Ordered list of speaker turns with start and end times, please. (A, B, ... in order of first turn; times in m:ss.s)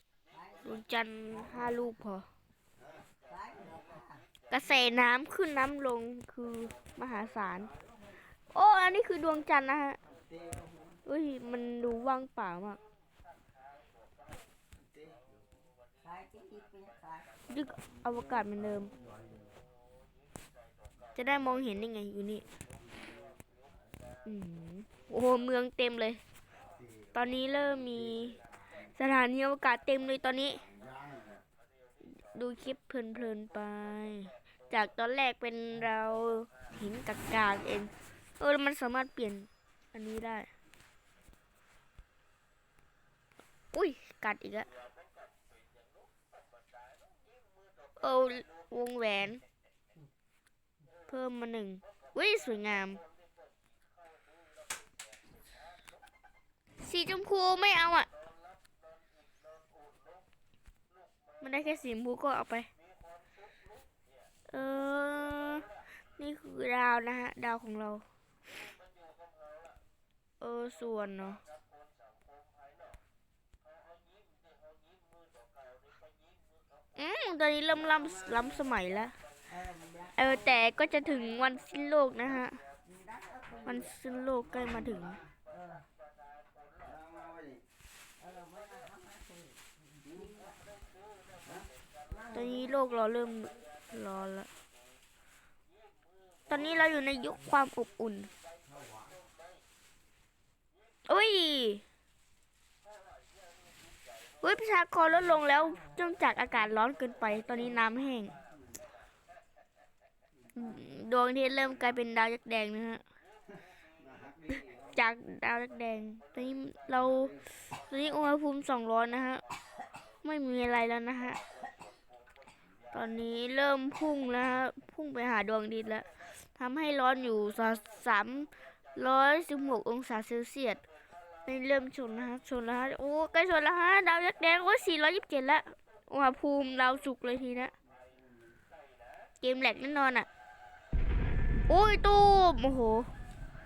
0:00.6-0:02.3 A
0:03.3-0:04.2 B
0:04.5-0:07.7 A
0:08.5-0:10.0 A
0:11.0-0:12.8 A
0:16.1-0:17.1 B
0:17.5-0:18.9 A
0:21.2-0:22.4 A
0:24.3-0:26.2 A
0:27.1-0:28.4 A
0:28.9-0:30.7 A
0:32.0-0:40.5 A
0:43.7-0:44.7 A
0:48.0-0:49.4 A
0:51.1-0:53.0 A
0:56.8-0:58.1 A
1:01.4-1:02.7 A
1:04.5-1:05.7 A
1:06.2-1:08.0 A
1:10.4-1:11.4 A
1:17.0-1:19.2 A
1:20.2-1:22.6 A
1:23.6-1:25.2 A
1:28.2-1:29.6 B
1:32.3-1:34.5 A
1:36.5-1:38.3 A
1:41.1-1:41.8 A
1:44.4-1:48.4 A
1:50.6-1:53.0 A
1:54.5-1:59.4 A
2:00.2-2:01.4 A
2:02.9-2:10.8 A
2:11.5-2:17.7 A
2:19.4-2:20.3 A
2:21.7-2:23.1 A